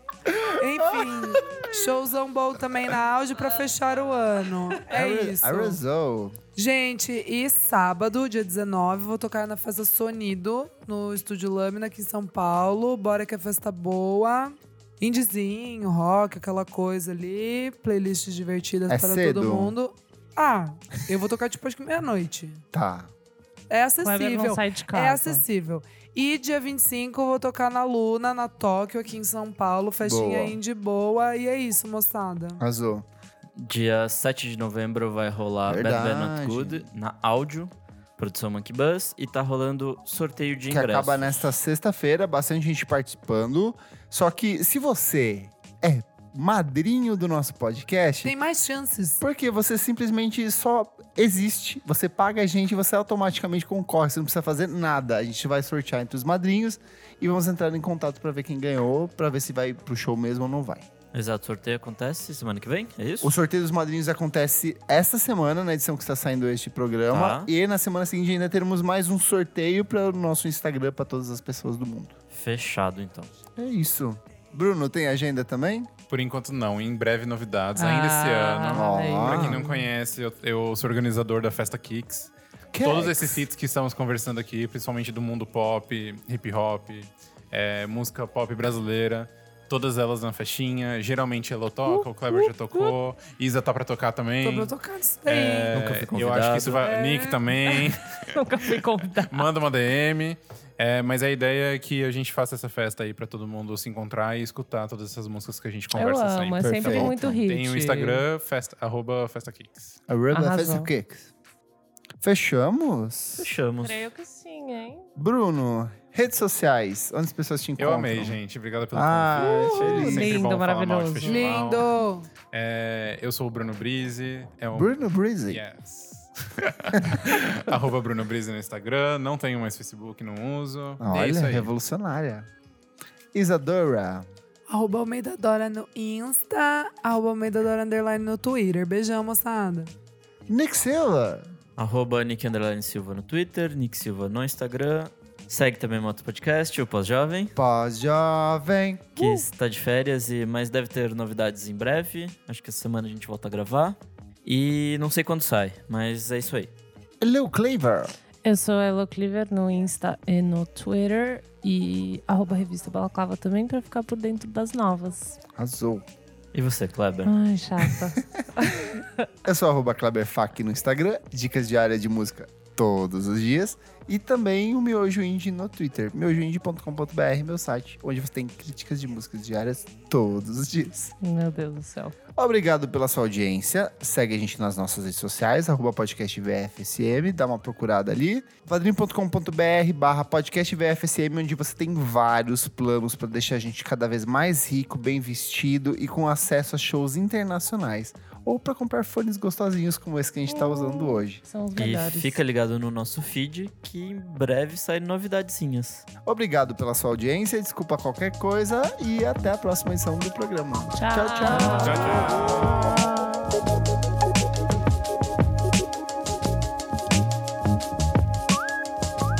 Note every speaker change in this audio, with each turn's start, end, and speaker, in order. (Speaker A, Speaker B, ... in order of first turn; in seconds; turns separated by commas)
Speaker A: 0.2-2.0, Speaker B: 0.6-5.8, Speaker A: 4.8-6.4, Speaker B: 6.5-22.6, Speaker A: 18.9-19.8, Speaker A: 22.7-23.1, Speaker B: 23.7-32.6, Speaker C: 24.0-25.4, Speaker A: 30.0-30.6, Speaker A: 32.6-33.0, Speaker D: 33.6-41.4, Speaker A: 35.7-36.9, Speaker A: 40.7-48.3, Speaker B: 48.2-49.2, Speaker A: 49.2-60.9, Speaker D: 61.1-63.3, Speaker A: 63.2-72.1, Speaker D: 67.1-67.5, Speaker D: 72.3-73.4, Speaker A: 73.6-75.9, Speaker E: 76.1-94.7, Speaker C: 77.8-79.9, Speaker A: 78.7-79.6, Speaker A: 82.7-83.5, Speaker C: 91.9-93.0, Speaker B: 94.4-95.7, Speaker E: 95.2-98.4, Speaker D: 95.7-96.9, Speaker B: 96.8-97.7, Speaker C: 98.2-99.5, Speaker E: 99.3-110.0, Speaker C: 105.9-108.2, Speaker A: 106.6-107.4, Speaker A: 110.1-111.3, Speaker C: 110.3-110.9, Speaker A: 112.2-113.5, Speaker D: 113.3-114.0, Speaker C: 113.8-115.1, Speaker A: 115.2-118.4, Speaker E: 117.8-121.9, Speaker A: 118.9-120.4, Speaker C: 119.7-121.4, Speaker B: 121.2-122.3, Speaker E: 122.5-131.7, Speaker A: 124.7-125.6, Speaker A: 127.0-127.3, Speaker A: 131.0-132.5, Speaker A: 133.3-134.2, Speaker B: 134.7-139.9, Speaker A: 140.5-141.5, Speaker D: 141.8-147.5, Speaker A: 147.6-149.1, Speaker D: 149.2-156.7, Speaker C: 149.2-149.5, Speaker A: 157.2-158.1, Speaker C: 158.4-165.4, Speaker A: 165.5-166.0, Speaker D: 166.5-167.3, Speaker C: 167.2-169.3, Speaker A: 169.4-181.0, Speaker C: 181.1-182.2, Speaker A: 182.3-201.4, Speaker C: 200.5-202.4, Speaker D: 201.8-206.1, Speaker A: 206.2-212.3, Speaker C: 210.9-213.6, Speaker E: 211.6-212.9